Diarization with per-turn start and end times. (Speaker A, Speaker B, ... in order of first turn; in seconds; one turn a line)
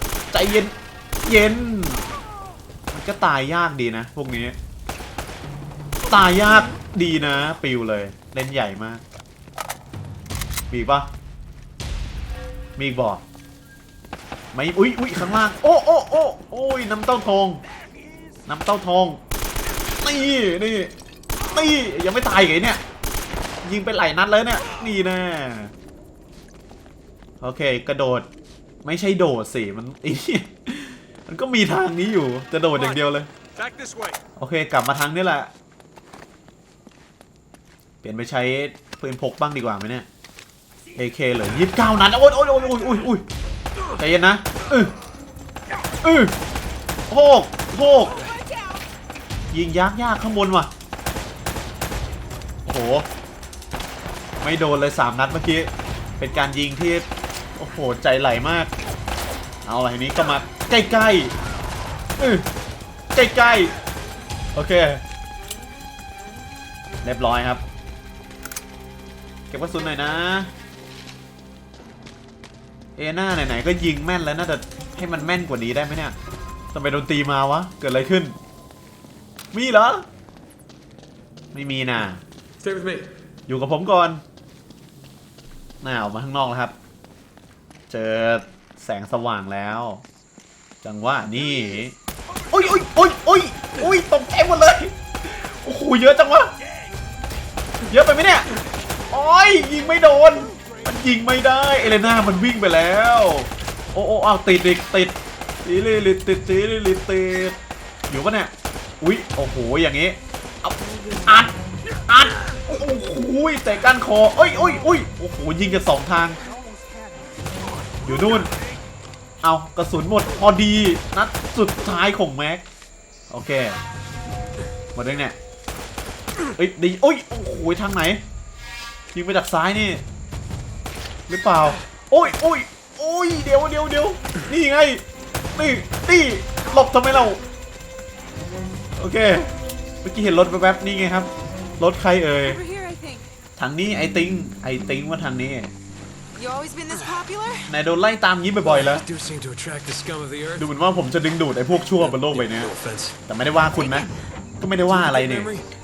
Speaker A: 0.3-2.0
Speaker A: 2.9-4.6
Speaker A: 6.1-9.0
Speaker A: 10.7-11.1
Speaker A: 12.8-13.2
Speaker A: 14.5-17.6
Speaker A: 18.5-19.2
Speaker A: 20.0-22.8
Speaker A: 23.6-25.7
Speaker A: 27.4-28.3
Speaker A: 28.8-33.3
Speaker B: 32.8-34.2
Speaker A: 34.4-35.5
Speaker A: 38.0-40.1
Speaker A: 41.0-43.2
Speaker A: 44.0-44.9
Speaker A: 46.0-46.3
Speaker A: 47.1-48.2
Speaker C: 48.1-48.9
Speaker A: 49.5-50.7
Speaker A: 52.7-53.1
Speaker A: 54.4-58.7
Speaker A: 59.6-61.4
Speaker A: 62.2-62.5
Speaker A: 63.1-63.7
Speaker A: 64.5-65.0
Speaker A: 67.0-67.6
Speaker A: 69.5-70.5
Speaker A: 73.0-76.2
Speaker A: 76.7-78.4
Speaker A: 79.5-80.1
Speaker A: 81.5-82.2
Speaker B: 82.6-83.1
Speaker A: 83.5-84.2
Speaker A: 85.8-86.8
Speaker A: 87.9-90.0
Speaker A: 90.8-92.0
Speaker A: 92.5-96.5
Speaker A: 97.9-98.5
Speaker A: 99.1-107.6
Speaker B: 100.5-100.8
Speaker A: 108.1-111.5
Speaker C: 110.9-111.4
Speaker A: 112.1-116.4
Speaker B: 116.5-117.3
Speaker B: 117.9-118.7
Speaker A: 118.0-118.5
Speaker A: 119.4-122.7
Speaker A: 123.3-123.8
Speaker A: 125.0-125.4
Speaker A: 126.6-128.2
Speaker A: 129.1-130.0
Speaker A: 131.3-135.0
Speaker A: 135.6-137.4
Speaker A: 139.0-139.5
Speaker A: 140.0-142.6
Speaker C: 142.4-143.3
Speaker A: 143.6-145.7
Speaker C: 146.3-147.7
Speaker B: 146.9-147.2
Speaker A: 147.7-149.1
Speaker B: 148.6-150.7
Speaker A: 150.6-152.7
Speaker B: 151.7-153.2
Speaker A: 153.2-154.1
Speaker C: 153.6-154.2
Speaker A: 154.6-155.5
Speaker B: 154.9-155.7